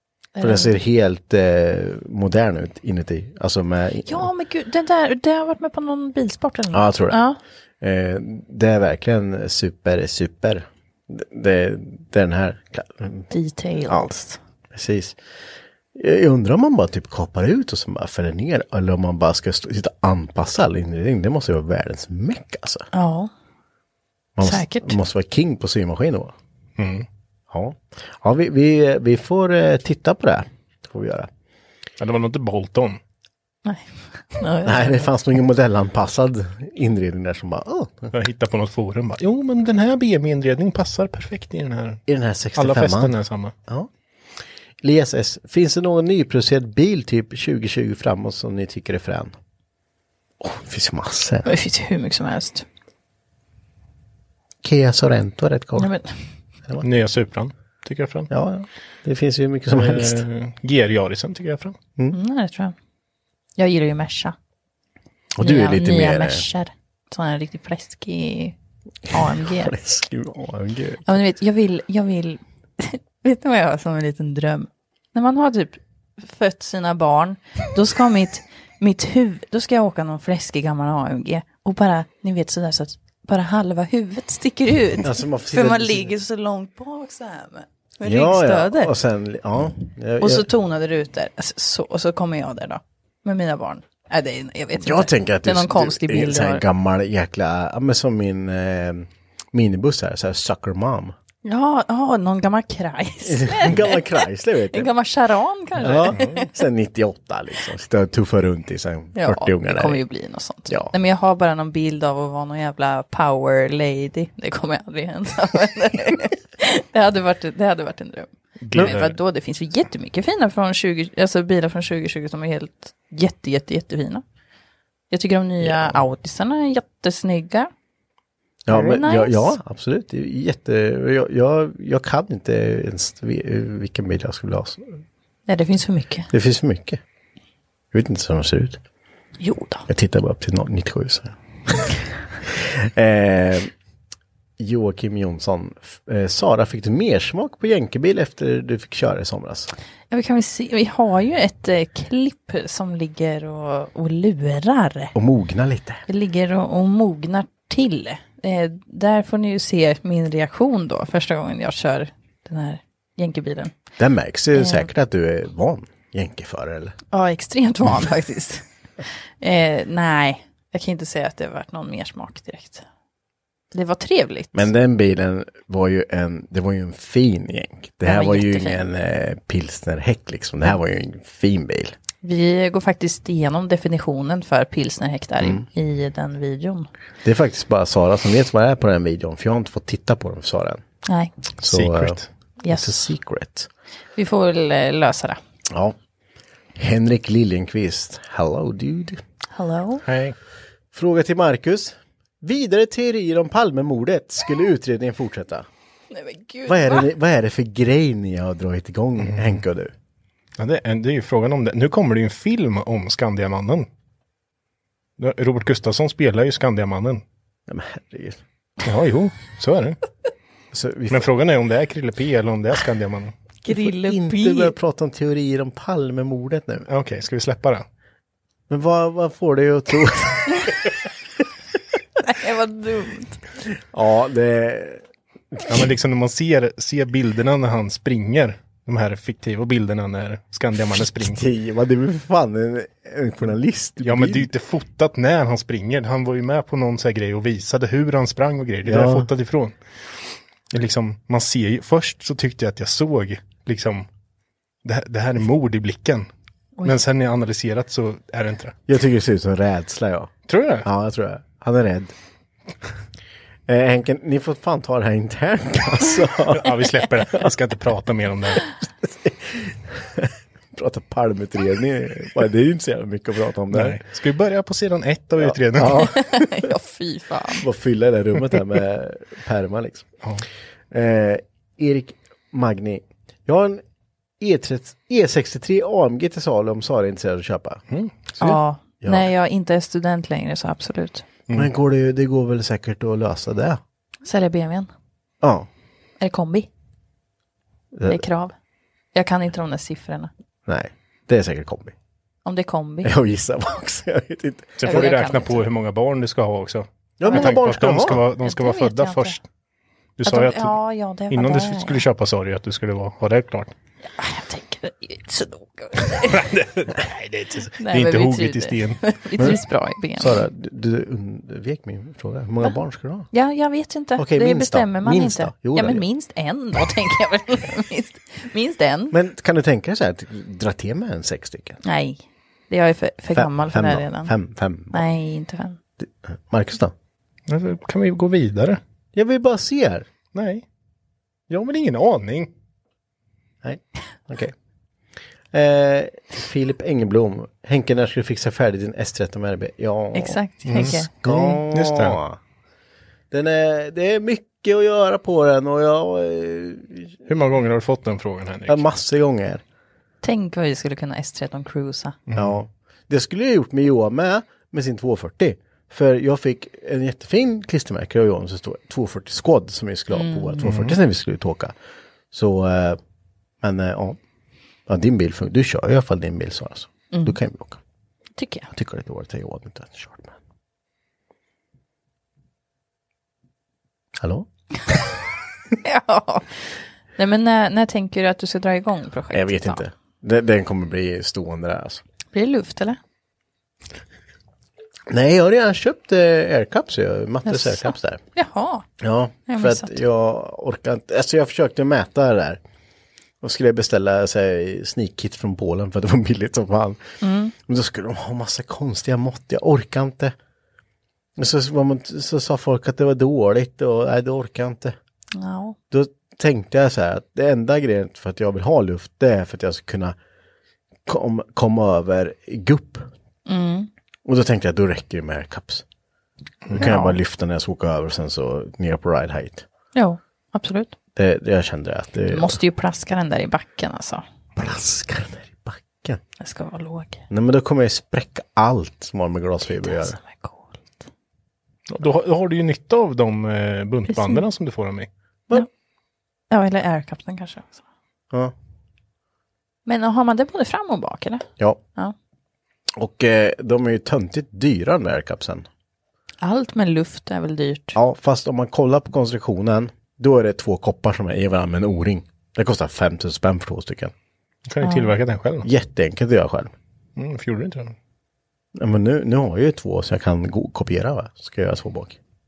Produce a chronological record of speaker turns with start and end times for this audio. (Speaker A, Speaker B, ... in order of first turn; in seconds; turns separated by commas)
Speaker A: 0.3-0.8, Speaker B: 0.4-4.3, Speaker A: 4.0-7.4, Speaker B: 6.7-7.2, Speaker B: 7.8-13.3, Speaker A: 13.3-14.4, Speaker B: 13.8-14.1, Speaker B: 14.7-15.2, Speaker B: 15.9-22.9, Speaker A: 22.9-23.3, Speaker B: 24.4-26.3, Speaker A: 24.4-25.0, Speaker C: 26.8-27.1, Speaker B: 27.5-31.3, Speaker C: 32.0-33.0, Speaker A: 33.6-35.1, Speaker B: 34.6-38.1, Speaker C: 38.1-42.0, Speaker B: 42.1-43.1, Speaker C: 42.6-43.5, Speaker B: 44.8-49.3, Speaker B: 50.4-51.5, Speaker A: 51.4-52.6, Speaker B: 54.6-55.9, Speaker A: 55.8-56.1, Speaker C: 56.8-58.3, Speaker B: 58.3-60.2, Speaker C: 59.7-61.8, Speaker A: 62.1-62.7, Speaker A: 63.6-64.3, Speaker B: 65.4-66.4, Speaker A: 65.4-68.5, Speaker A: 69.1-69.8, Speaker B: 69.1-71.2, Speaker A: 71.0-88.9, Speaker B: 85.0-86.1, Speaker B: 88.0-90.5, Speaker A: 90.2-96.6, Speaker B: 94.8-101.1, Speaker A: 101.4-106.5, Speaker B: 103.2-104.9, Speaker B: 105.8-110.0, Speaker A: 109.1-124.2, Speaker C: 118.6-119.1, Speaker B: 118.7-119.0, Speaker A: 125.1-127.7, Speaker B: 125.6-126.0, Speaker B: 128.7-135.0, Speaker A: 128.7-129.6, Speaker A: 135.5-136.3, Speaker B: 136.3-137.0, Speaker B: 137.9-138.8, Speaker A: 139.4-139.8, Speaker B: 139.9-143.7, Speaker B: 144.6-149.7, Speaker A: 150.1-155.1, Speaker B: 155.1-156.0, Speaker A: 156.1-163.7, Speaker B: 164.0-166.9, Speaker A: 164.5-164.9, Speaker A: 167.1-168.6, Speaker A: 169.4-172.8, Speaker A: 173.7-174.7, Speaker B: 174.5-181.9, Speaker A: 178.0-178.8, Speaker A: 182.2-186.9, Speaker B: 185.4-185.6, Speaker B: 187.2-190.8, Speaker A: 191.1-191.3, Speaker B: 191.6-193.7, Speaker C: 191.7-192.2, Speaker A: 192.6-193.1, Speaker A: 194.2-195.4, Speaker B: 195.7-195.9, Speaker B: 196.7-199.2, Speaker A: 199.5-200.0, Speaker C: 200.0-200.3, Speaker B: 200.9-205.7, Speaker A: 206.1-207.1, Speaker B: 206.7-209.9, Speaker C: 209.2-209.6, Speaker C: 210.6-213.9, Speaker C: 215.2-217.2, Speaker B: 217.7-218.4, Speaker C: 218.8-220.0, Speaker B: 220.7-221.3, Speaker C: 221.1-223.3, Speaker A: 223.6-224.7, Speaker B: 223.7-226.9, Speaker C: 226.9-227.8, Speaker B: 228.7-230.9, Speaker A: 232.2-233.4, Speaker B: 233.7-235.0, Speaker C: 235.7-241.4, Speaker B: 241.1-244.5, Speaker C: 244.0-249.8, Speaker B: 248.8-249.3, Speaker C: 250.7-254.1, Speaker C: 254.8-256.3, Speaker C: 256.8-258.8, Speaker B: 258.9-260.3, Speaker C: 260.5-260.9, Speaker B: 260.8-262.1, Speaker B: 263.7-267.5, Speaker C: 266.5-268.6, Speaker B: 268.8-274.0, Speaker C: 273.7-276.1, Speaker B: 275.4-276.7, Speaker A: 276.0-277.6, Speaker B: 277.5-280.1, Speaker B: 280.9-283.8, Speaker B: 284.4-289.3, Speaker C: 287.9-288.2, Speaker A: 288.4-291.2, Speaker B: 291.5-293.8, Speaker A: 294.2-294.9, Speaker B: 295.4-295.7, Speaker A: 296.2-296.7, Speaker B: 297.9-298.2, Speaker A: 298.1-298.5, Speaker A: 299.1-300.3, Speaker B: 300.6-301.9, Speaker A: 302.4-303.1, Speaker B: 303.0-305.2, Speaker C: 304.8-309.4, Speaker A: 304.8-305.6, Speaker B: 307.2-308.2, Speaker A: 307.2-309.4, Speaker C: 310.2-310.8, Speaker A: 310.2-312.0, Speaker C: 311.3-313.7, Speaker A: 314.0-316.5, Speaker C: 316.2-319.5, Speaker A: 317.8-320.5, Speaker B: 320.2-323.3, Speaker A: 323.3-329.1, Speaker B: 324.2-326.1, Speaker B: 329.1-331.8, Speaker A: 331.8-334.3, Speaker B: 333.3-335.0, Speaker A: 334.9-335.8, Speaker B: 336.0-336.9, Speaker C: 337.5-338.8, Speaker B: 339.1-340.1, Speaker C: 340.3-340.6, Speaker C: 341.5-342.5, Speaker B: 343.6-344.5, Speaker B: 345.5-352.4, Speaker A: 350.1-351.1, Speaker C: 350.6-352.2, Speaker B: 353.3-357.2, Speaker C: 357.3-358.8, Speaker B: 358.7-359.6, Speaker A: 360.2-362.2, Speaker C: 362.3-362.6, Speaker B: 362.3-371.7, Speaker A: 370.1-370.7, Speaker C: 370.6-370.9, Speaker B: 372.3-373.0, Speaker B: 373.6-374.2, Speaker B: 374.9-377.8, Speaker A: 377.1-377.4, Speaker A: 378.4-378.7, Speaker B: 378.7-380.4, Speaker B: 384.2-385.1, Speaker A: 385.8-389.8, Speaker B: 389.3-392.0, Speaker A: 392.3-393.0, Speaker B: 395.1-398.2, Speaker A: 397.4-398.9, Speaker B: 399.0-402.6, Speaker A: 399.5-400.0, Speaker B: 403.4-407.0, Speaker A: 407.2-407.5, Speaker B: 407.6-410.3, Speaker B: 411.4-414.9, Speaker A: 415.3-415.8, Speaker B: 415.9-420.2, Speaker B: 421.1-423.1, Speaker A: 423.4-423.9, Speaker B: 424.2-425.8, Speaker B: 426.7-429.6, Speaker A: 426.8-427.2, Speaker A: 429.9-430.9, Speaker B: 431.1-432.6, Speaker A: 432.3-434.2, Speaker B: 434.6-436.2, Speaker A: 436.4-437.2, Speaker B: 437.3-440.2, Speaker A: 439.7-440.8, Speaker C: 441.9-445.1, Speaker A: 444.1-444.4, Speaker A: 446.5-447.8, Speaker A: 449.9-452.1, Speaker B: 452.9-455.7, Speaker A: 456.4-458.0, Speaker B: 457.9-464.1, Speaker C: 464.7-465.7, Speaker A: 464.8-465.1, Speaker B: 465.6-466.7, Speaker C: 467.2-467.9, Speaker B: 468.7-472.2